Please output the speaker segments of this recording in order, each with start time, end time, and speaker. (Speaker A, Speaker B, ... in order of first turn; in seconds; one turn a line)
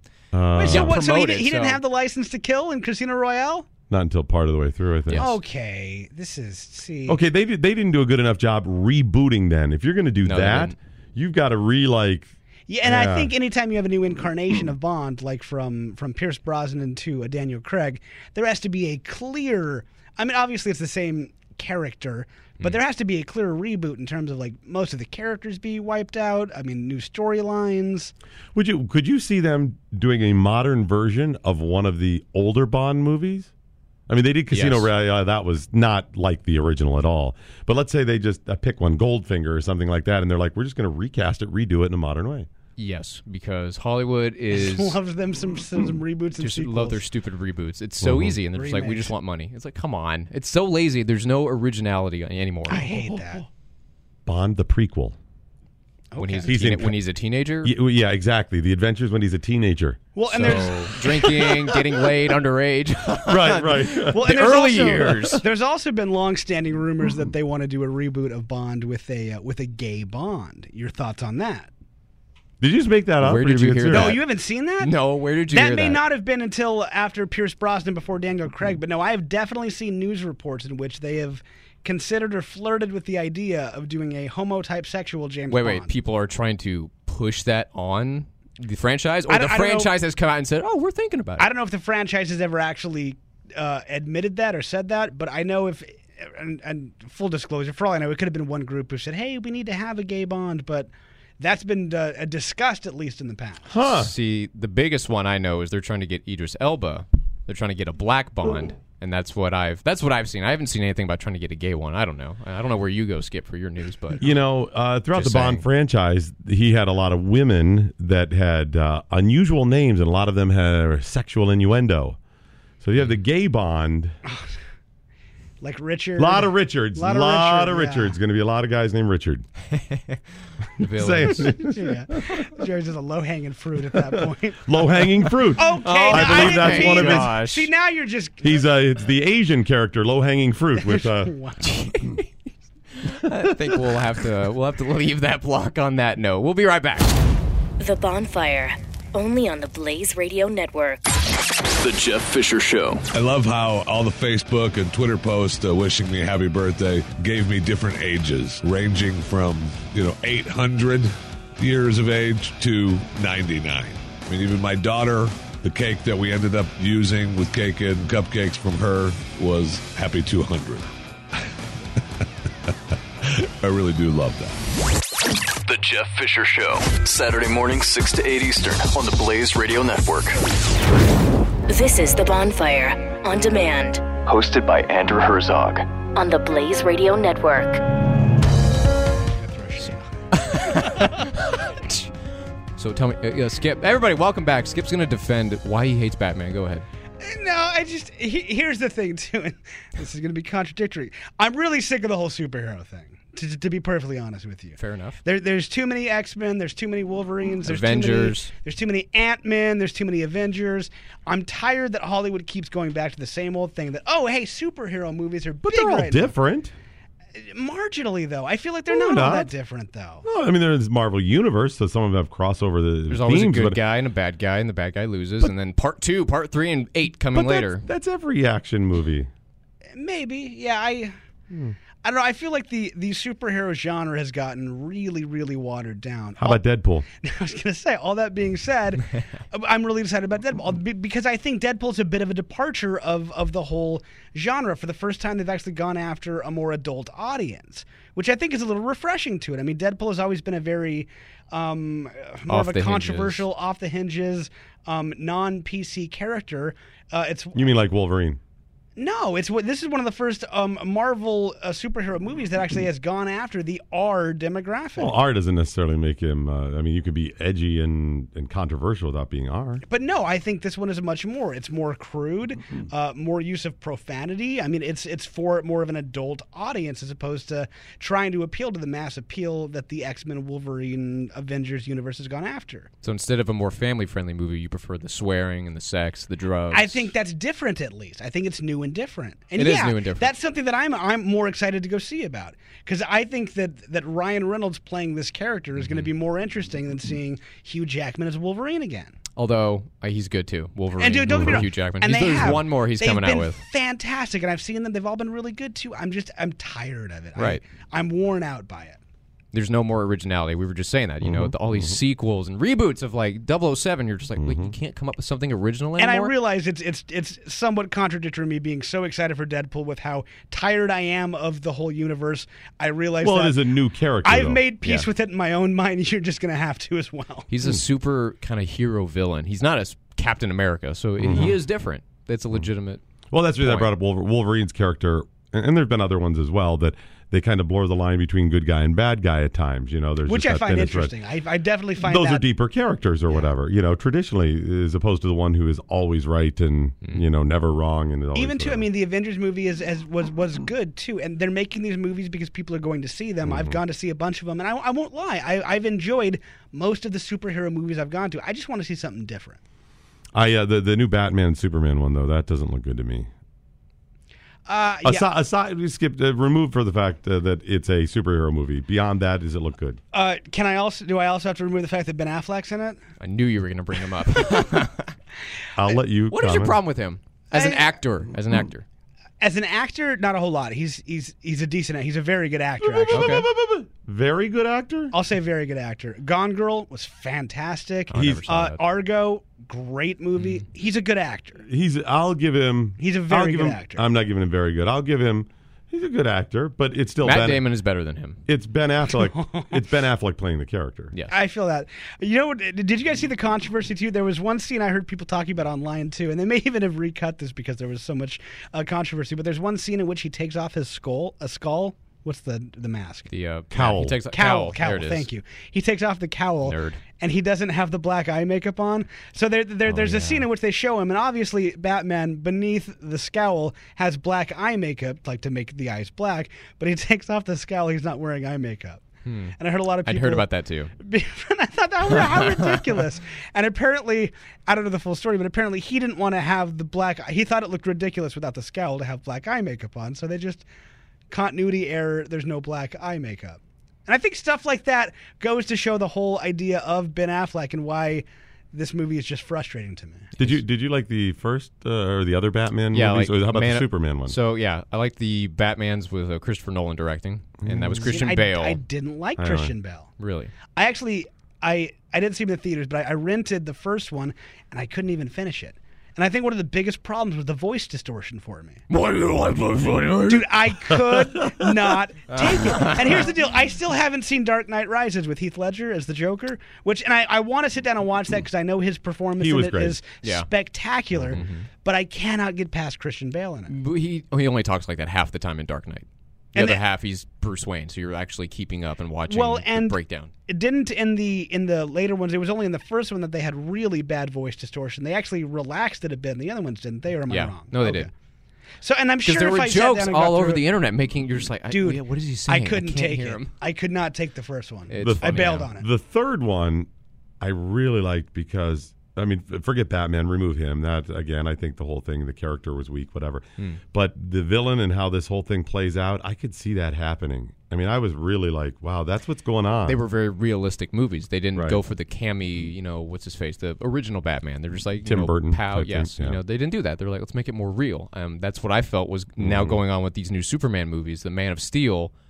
Speaker A: 0.3-1.0
Speaker B: 0.5-3.7
Speaker C: 0.6-1.8
Speaker A: 3.9-5.2
Speaker C: 5.1-5.3
Speaker B: 5.1-7.2
Speaker A: 7.1-12.3
Speaker C: 10.2-10.7
Speaker B: 12.7-28.1
Speaker A: 12.8-13.3
Speaker A: 28.5-33.5
Speaker A: 34.1-42.5
Speaker C: 34.5-34.9
Speaker C: 42.8-45.0
Speaker B: 44.5-47.0
Speaker C: 46.4-52.9
Speaker A: 48.0-48.4
Speaker B: 48.5-49.1
Speaker B: 52.7-53.5
Speaker A: 52.8-53.4
Speaker A: 54.2-55.2
Speaker B: 56.1-56.5
Speaker C: 56.2-57.7
Speaker A: 56.5-57.0
Speaker A: 57.6-60.7
Speaker B: 60.1-62.1
Speaker C: 60.3-65.4
Speaker A: 63.3-65.4
Speaker B: 64.1-71.7
Speaker A: 72.6-74.2
Speaker C: 73.2-74.2
Speaker B: 73.9-85.9
Speaker C: 74.8-76.0
Speaker C: 85.5-91.5
Speaker B: 89.3-89.9
Speaker B: 91.4-103.7
Speaker A: 103.7-104.1
Speaker C: 103.8-114.3
Speaker A: 114.2-122.2
Speaker C: 115.1-115.6
Speaker A: 122.8-124.1
Speaker B: 125.6-128.1
Speaker A: 126.2-129.4
Speaker C: 129.7-130.2
Speaker C: 130.8-131.5
Speaker A: 130.9-132.5
Speaker B: 131.7-138.6
Speaker A: 134.0-137.4
Speaker C: 135.8-137.7
Speaker A: 138.4-141.3
Speaker B: 140.8-142.2
Speaker C: 141.6-142.2
Speaker C: 143.0-147.1
Speaker D: 147.8-151.0
Speaker E: 151.7-153.1
Speaker F: 153.1-170.9
Speaker F: 173.2-174.6
Speaker E: 175.6-180.4
Speaker D: 181.7-184.1
Speaker E: 184.2-185.9
Speaker D: 186.1-187.8
Speaker B: 189.3-191.3
Speaker C: 190.3-192.1
Speaker C: 192.8-196.8
Speaker B: 197.2-216.3
Speaker C: 204.8-205.2
Speaker C: 207.7-208.5
Speaker A: 215.6-216.7
Speaker B: 217.4-220.2
Speaker A: 218.9-219.5
Speaker A: 220.2-223.8
Speaker C: 223.1-227.8
Speaker A: 227.3-229.3
Speaker B: 229.9-231.1
Speaker A: 231.5-231.8
Speaker B: 232.0-236.6
Speaker A: 236.4-237.1
Speaker B: 237.2-257.7
Speaker C: 252.5-253.4
Speaker A: 257.5-258.4
Speaker B: 258.9-265.1
Speaker A: 265.0-269.8
Speaker B: 269.9-282.9
Speaker C: 283.0-287.1
Speaker B: 286.7-299.1
Speaker C: 289.6-290.3
Speaker C: 295.8-296.1
Speaker C: 299.4-303.6
Speaker B: 301.0-309.0
Speaker A: 301.3-301.6
Speaker C: 307.4-307.6
Speaker C: 309.5-316.3
Speaker A: 311.2-312.0
Speaker A: 314.4-314.7
Speaker B: 316.0-323.6
Speaker A: 323.2-324.6
Speaker B: 324.2-327.5
Speaker C: 327.5-333.0
Speaker A: 331.2-331.5
Speaker A: 333.3-341.1
Speaker C: 333.6-333.9
Speaker B: 340.2-342.4
Speaker A: 342.0-348.9
Speaker B: 348.3-359.6
Speaker A: 353.4-353.8
Speaker A: 360.3-363.3
Speaker B: 364.6-365.3
Speaker A: 365.0-370.0
Speaker B: 370.1-373.0
Speaker C: 373.2-375.1
Speaker A: 375.8-376.8
Speaker C: 376.3-378.8
Speaker B: 377.5-377.9
Speaker B: 379.4-383.4
Speaker A: 382.8-385.1
Speaker C: 383.1-383.5
Speaker B: 385.1-391.6
Speaker C: 388.1-388.8
Speaker A: 388.1-388.4
Speaker C: 390.4-390.6
Speaker A: 391.6-397.7
Speaker B: 393.0-394.0
Speaker C: 397.2-398.4
Speaker A: 398.5-401.1
Speaker B: 399.1-399.8
Speaker B: 401.3-413.3
Speaker C: 413.3-415.3
Speaker A: 413.7-414.2
Speaker B: 414.3-429.0
Speaker C: 416.6-417.0
Speaker C: 419.9-420.4
Speaker C: 429.2-430.9
Speaker B: 429.6-430.5
Speaker B: 431.0-440.6
Speaker C: 432.1-432.7
Speaker B: 441.3-450.3
Speaker A: 450.4-454.4
Speaker C: 452.9-458.8
Speaker A: 457.6-458.1
Speaker B: 457.9-460.1
Speaker A: 459.4-459.7
Speaker C: 460.2-460.5
Speaker B: 460.7-468.8
Speaker C: 468.9-470.5
Speaker B: 470.3-483.7
Speaker C: 472.3-473.3
Speaker A: 479.4-480.0
Speaker C: 481.3-481.7
Speaker C: 483.7-490.3
Speaker B: 486.5-486.8
Speaker B: 489.3-498.1
Speaker C: 497.3-498.1
Speaker B: 498.8-500.7
Speaker C: 499.2-503.5
Speaker B: 501.7-505.9
Speaker C: 504.9-505.7
Speaker A: 505.0-506.9
Speaker A: 507.4-520.0
Speaker C: 519.9-532.1
Speaker A: 521.5-521.8
Speaker A: 525.0-526.4
Speaker A: 529.4-529.8